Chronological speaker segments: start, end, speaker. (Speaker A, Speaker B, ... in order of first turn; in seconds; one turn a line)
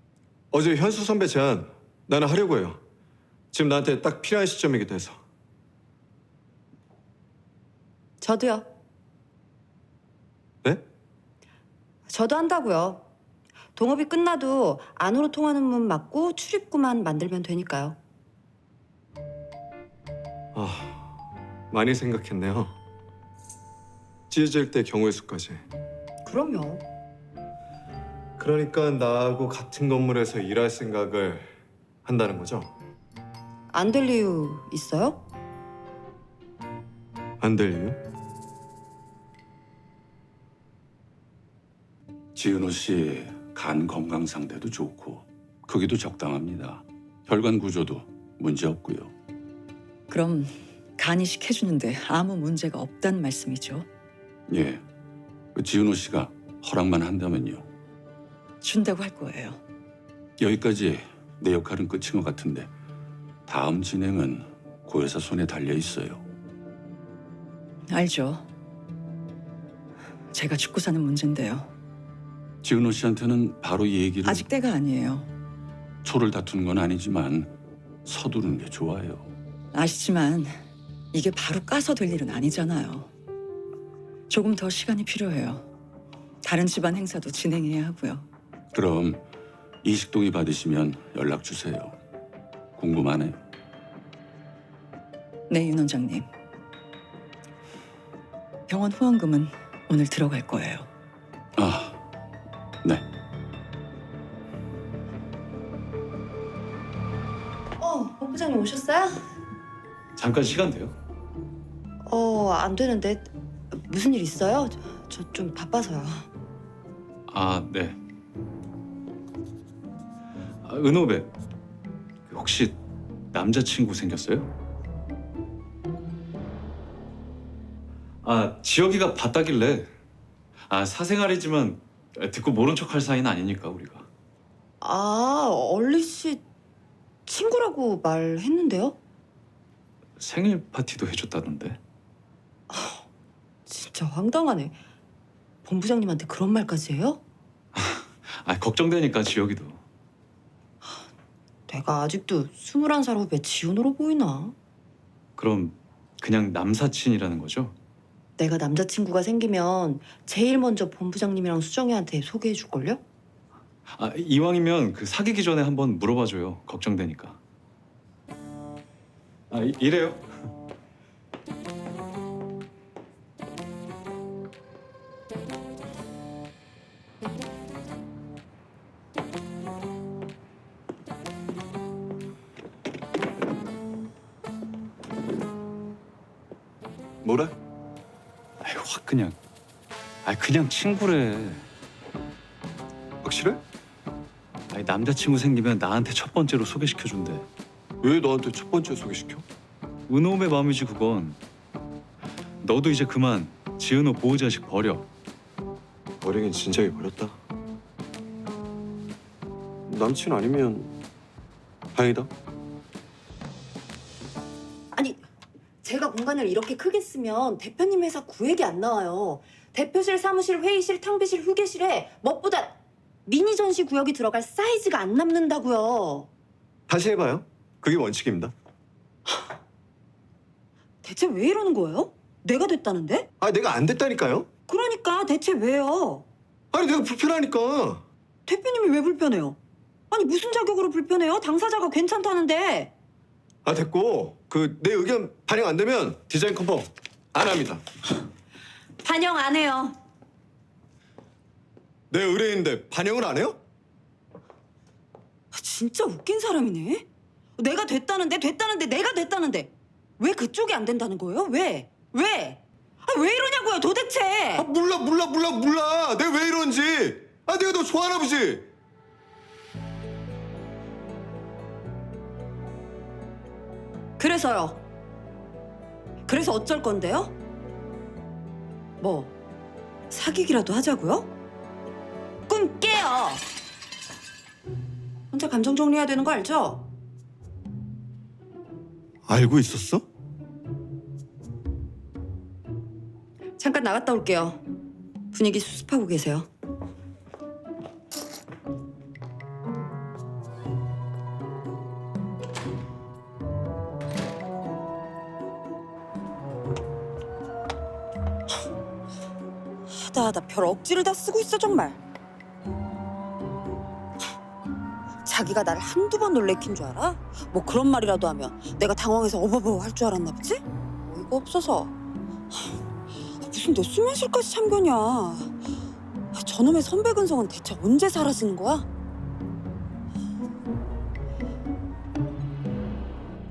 Speaker A: 0.5-2.8
Speaker A: 3.5-5.2
Speaker B: 8.2-8.7
Speaker B: 12.1-13.0
Speaker B: 13.8-18.0
Speaker A: 20.6-21.1
Speaker A: 21.7-22.8
Speaker A: 24.3-25.6
Speaker B: 26.2-26.8
Speaker A: 28.4-32.7
Speaker B: 33.7-35.2
Speaker A: 37.4-38.0
Speaker C: 42.4-49.1
Speaker D: 50.1-53.9
Speaker C: 54.5-54.8
Speaker C: 55.5-57.7
Speaker D: 58.6-59.6
Speaker C: 60.4-62.7
Speaker C: 63.5-66.2
Speaker D: 67.9-68.5
Speaker D: 70.3-71.7
Speaker C: 72.6-74.5
Speaker D: 74.2-75.3
Speaker C: 76.0-77.5
Speaker C: 78.1-79.3
Speaker D: 79.7-80.6
Speaker D: 81.1-83.1
Speaker D: 84.3-85.7
Speaker D: 86.4-88.3
Speaker C: 88.7-89.2
Speaker C: 89.8-92.0
Speaker C: 92.8-93.4
Speaker D: 95.5-96.3
Speaker D: 98.7-100.9
Speaker C: 101.6-102.0
Speaker B: 107.8-109.2
Speaker E: 110.2-110.9
Speaker B: 112.1-116.3
Speaker E: 117.3-118.0
Speaker E: 120.7-121.3
Speaker E: 122.3-122.8
Speaker E: 123.3-124.5
Speaker E: 128.2-129.9
Speaker E: 130.7-134.1
Speaker B: 134.8-136.4
Speaker B: 137.3-139.0
Speaker E: 140.2-141.8
Speaker B: 142.7-143.1
Speaker B: 143.7-144.8
Speaker B: 145.7-147.2
Speaker E: 147.8-149.8
Speaker B: 151.7-154.5
Speaker E: 155.4-157.7
Speaker B: 158.4-163.0
Speaker E: 163.9-167.4
Speaker E: 169.5-170.2
Speaker A: 187.2-187.6
Speaker E: 188.6-189.4
Speaker E: 190.2-191.7
Speaker A: 193.2-193.6
Speaker E: 194.7-197.5
Speaker A: 198.0-199.5
Speaker E: 200.1-201.4
Speaker E: 202.6-205.1
Speaker A: 206.2-207.4
Speaker A: 209.9-210.9
Speaker A: 211.9-212.3
Speaker B: 214.9-215.2
Speaker B: 215.8-226.3
Speaker A: 226.9-228.5
Speaker B: 231.0-233.3
Speaker A: 233.4-234.5
Speaker B: 234.7-236.2
Speaker A: 236.7-238.0
Speaker B: 238.5-239.6
Speaker B: 240.1-242.9
Speaker A: 243.7-247.8
Speaker B: 249.0-250.0
Speaker A: 252.1-253.6
Speaker B: 255.5-257.1
Speaker B: 257.6-264.6
Speaker A: 264.6-268.7
Speaker B: 274.2-274.8
Speaker B: 276.3-277.3
Speaker B: 279.0-279.3
Speaker B: 280.1-281.3
Speaker B: 282.5-283.4
Speaker B: 285.3-286.9
Speaker A: 289.3-290.1
Speaker B: 293.6-294.6
Speaker B: 295.3-296.5
Speaker B: 309.9-312.0
Speaker B: 315.2-321.9
Speaker B: 323.4-325.5
Speaker B: 326.4-328.9